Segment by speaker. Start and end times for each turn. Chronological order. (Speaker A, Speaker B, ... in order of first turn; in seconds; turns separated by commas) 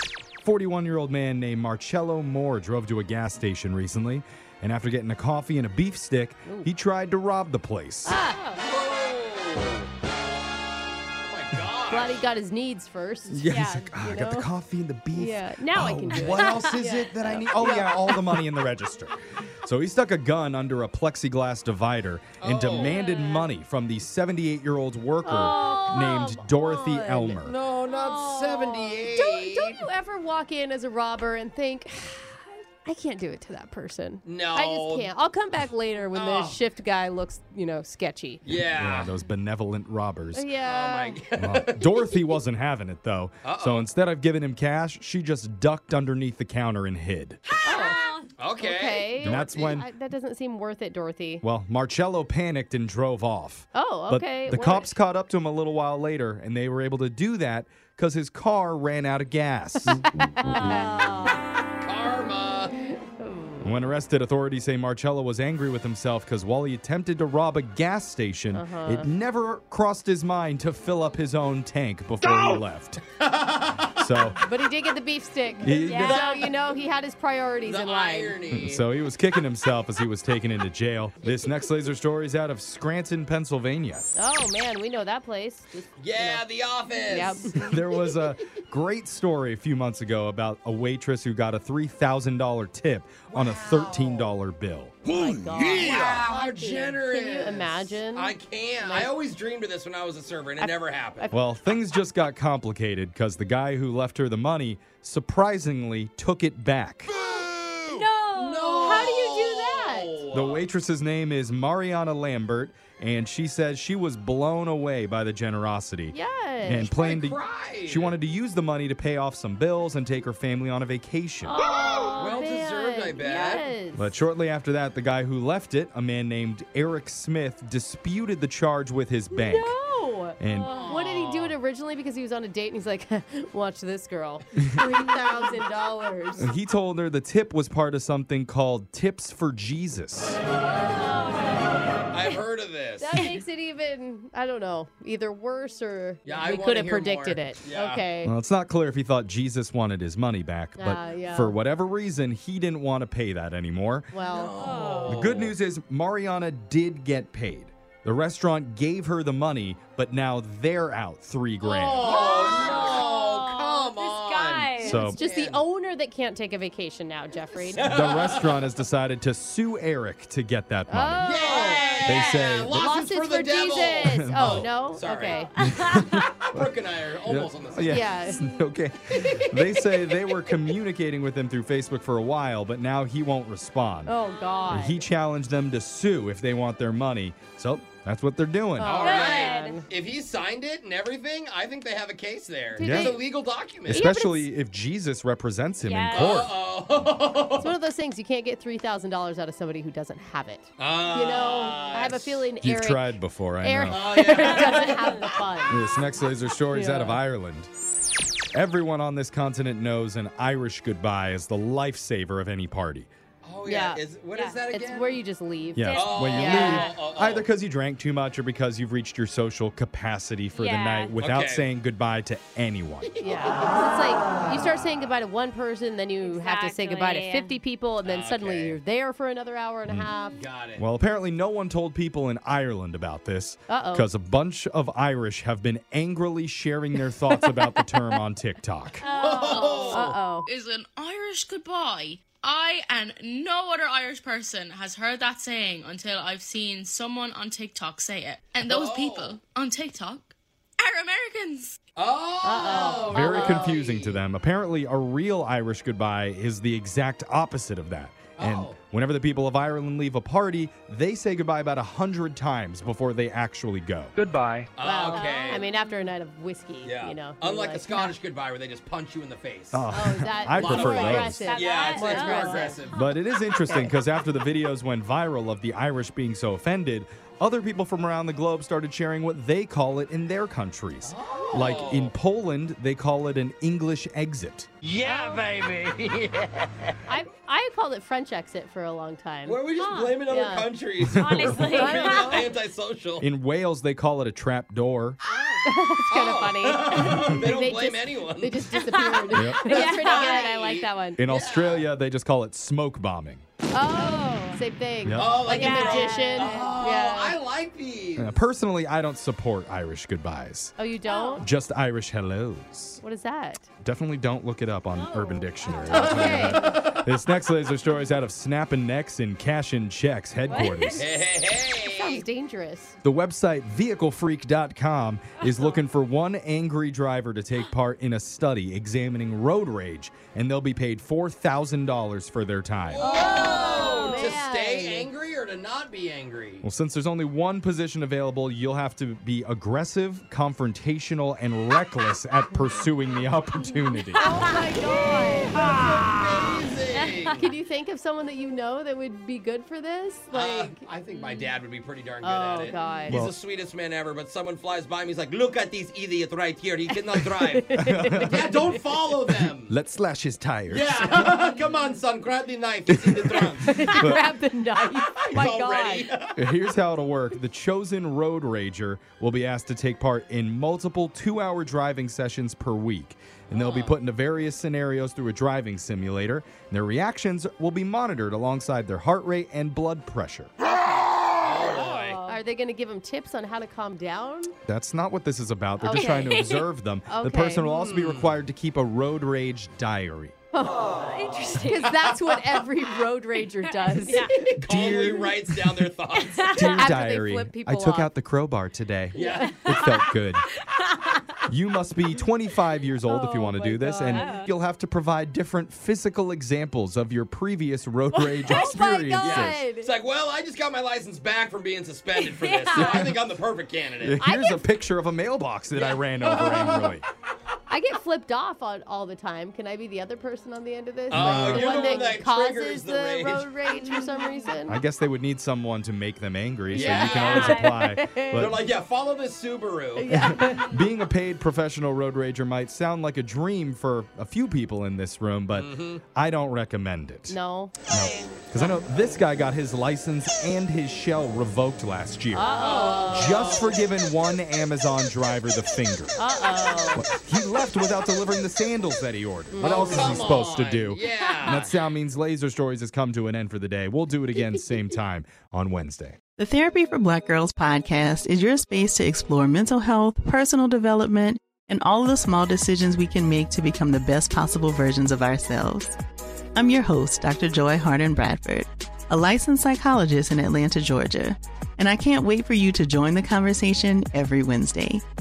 Speaker A: 0.4-8.2, Speaker B: 8.1-8.4, Speaker C: 8.2-8.6, Speaker D: 8.6-9.9, Speaker D: 11.2-12.2, Speaker B: 11.9-14.5, Speaker A: 13.3-27.6, Speaker C: 13.5-14.0, Speaker B: 15.1-17.9, Speaker D: 22.4-23.0, Speaker C: 23.1-23.5, Speaker B: 25.2-38.4, Speaker C: 25.4-25.8, Speaker D: 27.4-29.9, Speaker D: 34.2-35.1, Speaker D: 36.1-36.6, Speaker D: 38.4-39.1, Speaker A: 38.6-40.5, Speaker B: 40.3-41.2, Speaker D: 40.6-42.0, Speaker A: 41.4-47.4, Speaker D: 43.4-43.9, Speaker B: 47.6-48.0, Speaker C: 47.7-48.3, Speaker D: 47.7-49.7, Speaker B: 48.6-51.4, Speaker A: 49.2-49.9, Speaker A: 51.4-60.0, Speaker B: 53.7-54.9, Speaker B: 59.9-61.4, Speaker D: 61.8-62.7, Speaker B: 62.9-63.7, Speaker A: 63.6-73.0, Speaker B: 68.5-69.1, Speaker D: 72.2-72.6, Speaker D: 73.2-74.3, Speaker A: 74.0-74.4, Speaker B: 74.4-78.4, Speaker A: 75.6-76.2, Speaker C: 75.8-76.2, Speaker D: 76.0-76.5, Speaker D: 77.6-78.8, Speaker A: 78.5-84.1, Speaker B: 84.1-86.4, Speaker D: 86.0-87.5, Speaker B: 87.0-87.8, Speaker A: 87.5-95.0, Speaker D: 93.3-94.3, Speaker B: 95.0-99.1, Speaker D: 95.7-101.3, Speaker B: 100.6-101.4, Speaker A: 101.3-107.1, Speaker D: 107.3-110.6, Speaker C: 107.8-109.0, Speaker B: 108.8-110.2, Speaker A: 110.3-121.6, Speaker B: 116.1-116.9, Speaker D: 116.8-118.1, Speaker B: 121.4-124.1, Speaker D: 122.2-123.7, Speaker A: 123.9-129.7, Speaker B: 129.3-136.5, Speaker A: 130.4-130.8, Speaker D: 130.6-131.6, Speaker A: 136.4-140.4, Speaker C: 140.8-141.8, Speaker D: 142.1-143.3, Speaker B: 143.0-148.3, Speaker D: 146.2-148.0, Speaker A: 148.2-154.1, Speaker B: 150.8-151.6, Speaker B: 154.1-154.9, Speaker D: 154.2-155.5, Speaker C: 154.6-155.1, Speaker A: 155.1-162.1, Speaker D: 161.6-165.6, Speaker C: 162.0-165.0, Speaker A: 164.8-165.2, Speaker B: 164.9-167.9, Speaker D: 167.5-168.7, Speaker A: 167.8-171.3, Speaker B: 170.9-175.5, Speaker D: 171.2-175.4, Speaker A: 172.0-172.9, Speaker A: 174.1-174.7, Speaker C: 175.6-176.2, Speaker A: 175.6-176.7, Speaker D: 176.1-178.2, Speaker A: 177.2-184.1, Speaker B: 177.8-178.4, Speaker B: 184.1-185.1, Speaker A: 184.7-189.0, Speaker B: 188.8-189.9, Speaker D: 188.8-194.1, Speaker C: 189.0-189.8, Speaker B: 192.8-193.2, Speaker A: 192.8-193.2, Speaker A: 193.8-196.6, Speaker B: 193.9-194.4, Speaker C: 195.8-196.2, Speaker D: 196.1-197.8, Speaker B: 197.6-205.8, Speaker D: 200.8-202.5, Speaker A: 202.6-204.3, Speaker D: 203.8-205.7, Speaker A: 205.7-207.7, Speaker B: 206.7-207.2, Speaker A: 208.5-213.1, Speaker D: 213.4-215.2, Speaker B: 213.6-214.0, Speaker B: 214.7-216.8, Speaker A: 215.8-223.1, Speaker C: 215.8-216.9, Speaker D: 215.9-217.5, Speaker C: 220.5-221.1, Speaker D: 221.2-221.7, Speaker D: 223.1-224.0, Speaker B: 223.2-230.4, Speaker C: 226.2-227.6, Speaker D: 228.0-228.8, Speaker D: 230.3-230.8, Speaker A: 230.8-239.0, Speaker B: 233.7-234.1, Speaker B: 237.4-238.1, Speaker C: 239.0-251.8, Speaker D: 239.1-240.2, Speaker B: 239.4-240.5, Speaker D: 248.6-249.4, Speaker D: 251.9-254.2, Speaker B: 252.4-253.7, Speaker A: 253.1-264.1, Speaker D: 258.4-258.8, Speaker D: 264.8-265.7, Speaker B: 264.8-268.1, Speaker C: 265.1-265.9, Speaker D: 266.8-269.9, Speaker A: 269.7-271.4, Speaker B: 269.9-272.8, Speaker D: 270.5-273.1, Speaker C: 271.0-272.9, Speaker A: 272.9-284.7, Speaker B: 273.6-273.9, Speaker D: 281.0-282.1, Speaker D: 284.8-287.0, Speaker B: 285.0-285.4, Speaker B: 287.1-290.7, Speaker D: 289.4-293.3, Speaker C: 289.8-290.1, Speaker A: 291.0-291.6, Speaker C: 291.1-292.4, Speaker B: 291.3-292.5, Speaker A: 293.2-295.2, Speaker B: 295.6-301.2, Speaker D: 296.1-301.9, Speaker C: 298.7-300.5, Speaker A: 299.3-299.7, Speaker A: 301.2-303.4, Speaker B: 303.7-307.4, Speaker C: 303.8-304.6, Speaker A: 305.0-305.4, Speaker D: 305.1-308.4, Speaker C: 305.4-306.8, Speaker A: 308.2-310.7, Speaker B: 310.8-311.4, Speaker C: 311.1-311.5, Speaker A: 311.4-313.0, Speaker B: 313.0-313.7, Speaker A: 313.8-321.1, Speaker C: 314.9-316.5, Speaker B: 315.9-316.7, Speaker C: 320.5-321.0, Speaker D: 321.0-322.2, Speaker B: 321.8-322.9, Speaker A: 323.0-333.1, Speaker D: 332.9-336.6, Speaker B: 333.0-335.1, Speaker C: 333.3-334.2, Speaker A: 336.6-344.3, Speaker B: 344.1-345.8, Speaker D: 344.5-347.5, Speaker B: 347.4-350.8, Speaker D: 350.3-359.7, Speaker B: 352.2-353.2, Speaker A: 353.1-353.3, Speaker B: 357.6-358.8, Speaker A: 357.7-358.6, Speaker A: 359.4-361.4, Speaker D: 360.7-364.2, Speaker A: 362.9-364.3, Speaker B: 363.6-366.1, Speaker D: 365.1-366.4, Speaker A: 366.4-380.5, Speaker D: 373.5-374.0, Speaker D: 380.6-382.2, Speaker C: 381.7-382.4, Speaker B: 382.2-384.5, Speaker A: 384.6-390.3, Speaker B: 385.8-386.4, Speaker C: 385.9-386.6, Speaker B: 387.1-387.6, Speaker D: 387.7-388.4, Speaker B: 390.5-390.9, Speaker C: 391.0-391.9, Speaker B: 391.6-394.6, Speaker D: 392.0-392.4, Speaker C: 394.1-394.4, Speaker D: 394.5-396.8, Speaker A: 394.6-395.8, Speaker C: 396.1-396.7, Speaker A: 396.5-400.4, Speaker B: 396.7-398.1, Speaker D: 399.1-399.6, Speaker C: 399.1-401.2, Speaker B: 399.2-399.5, Speaker A: 401.5-409.6, Speaker B: 403.1-404.4, Speaker C: 404.1-404.5, Speaker B: 408.4-409.9, Speaker D: 408.4-414.2, Speaker C: 412.1-413.0, Speaker A: 412.8-413.1, Speaker A: 414.0-417.1, Speaker B: 414.2-414.6, Speaker D: 415.7-416.9, Speaker B: 417.7-424.8, Speaker D: 421.1-423.5, Speaker A: 421.1-421.8, Speaker A: 424.7-428.6, Speaker D: 426.7-427.6, Speaker B: 426.7-428.4, Speaker D: 428.3-430.1, Speaker B: 430.0-430.7, Speaker A: 430.1-442.6, Speaker D: 435.6-436.0, Speaker B: 437.3-437.8, Speaker C: 437.9-438.6, Speaker B: 442.3-443.7, Speaker D: 442.6-443.8, Speaker A: 443.1-446.1, Speaker B: 446.2-447.0, Speaker A: 446.9-456.2, Speaker B: 449.5-450.3, Speaker D: 449.6-451.9, Speaker E: 456.4-465.9, Speaker E: 466.6-475.0